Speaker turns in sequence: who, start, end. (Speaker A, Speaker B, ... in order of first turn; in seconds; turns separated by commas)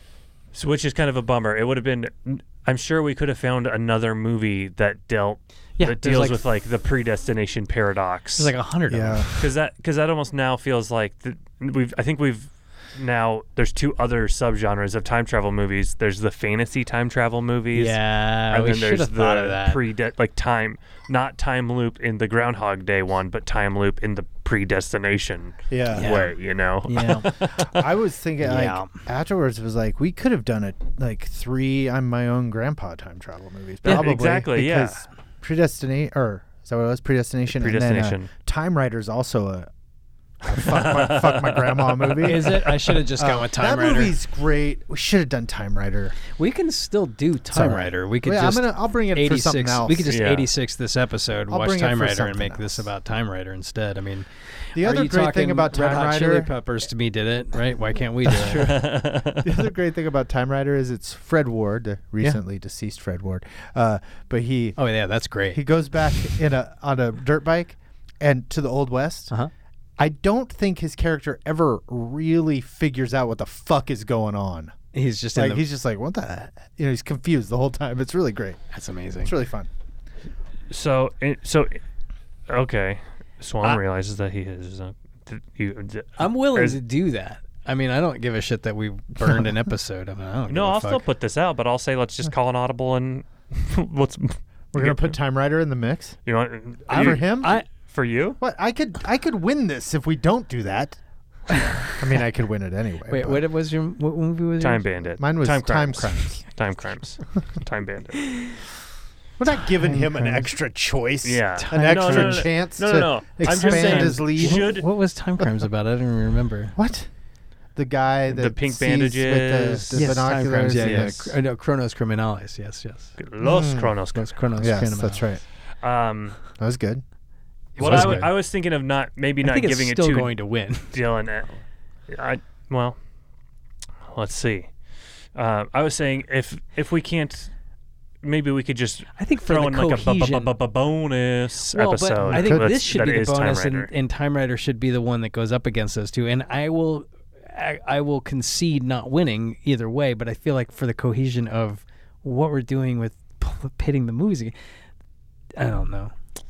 Speaker A: 0.5-8.5, Speaker B: 5.8-6.4, Speaker B: 8.4-9.5, Speaker C: 8.9-9.3, Speaker A: 9.4-27.9, Speaker B: 17.7-19.8, Speaker C: 25.7-26.1, Speaker B: 25.9-26.4, Speaker B: 26.9-27.4, Speaker C: 27.2-39.7, Speaker B: 28.4-29.0, Speaker A: 33.8-35.0, Speaker A: 37.5-38.3, Speaker C: 40.4-46.1, Speaker A: 40.6-42.5, Speaker B: 42.2-44.1, Speaker B: 46.4-58.7, Speaker C: 47.5-50.1, Speaker A: 50.1-50.5, Speaker C: 51.5-52.9, Speaker C: 54.7-56.5, Speaker C: 58.2-64.8, Speaker A: 58.5-59.5, Speaker B: 64.8-65.6, Speaker C: 65.5-69.3, Speaker C: 70.0-74.8, Speaker B: 74.9-75.6, Speaker C: 75.3-78.6, Speaker B: 78.7-79.3, Speaker C: 79.2-79.7, Speaker A: 80.7-81.8, Speaker A: 82.5-86.8, Speaker B: 86.2-91.0, Speaker A: 90.5-95.1, Speaker C: 94.7-96.2, Speaker A: 96.2-98.4, Speaker B: 96.9-97.7, Speaker C: 96.9-97.6, Speaker C: 98.4-101.0, Speaker B: 101.5-102.0, Speaker C: 102.0-103.4, Speaker B: 103.1-104.8, Speaker A: 104.6-108.5, Speaker C: 105.2-106.4, Speaker C: 109.4-114.8, Speaker B: 109.8-110.5, Speaker A: 111.2-114.9, Speaker B: 111.6-112.5, Speaker B: 113.5-116.7, Speaker C: 116.7-117.1, Speaker C: 117.8-121.3, Speaker A: 118.3-120.1, Speaker B: 119.9-123.2, Speaker A: 120.8-121.1, Speaker A: 123.2-124.7, Speaker C: 123.4-123.9, Speaker B: 124.1-125.3, Speaker C: 124.6-125.4, Speaker A: 125.8-126.4, Speaker C: 126.6-127.0, Speaker B: 127.8-128.2, Speaker A: 127.8-130.3, Speaker C: 127.8-128.3, Speaker B: 129.4-130.9, Speaker A: 130.9-133.0, Speaker A: 134.1-134.7, Speaker A: 135.3-137.5, Speaker A: 138.2-143.9, Speaker B: 139.2-140.5, Speaker B: 141.7-154.5, Speaker C: 142.2-142.7, Speaker B: 155.6-156.1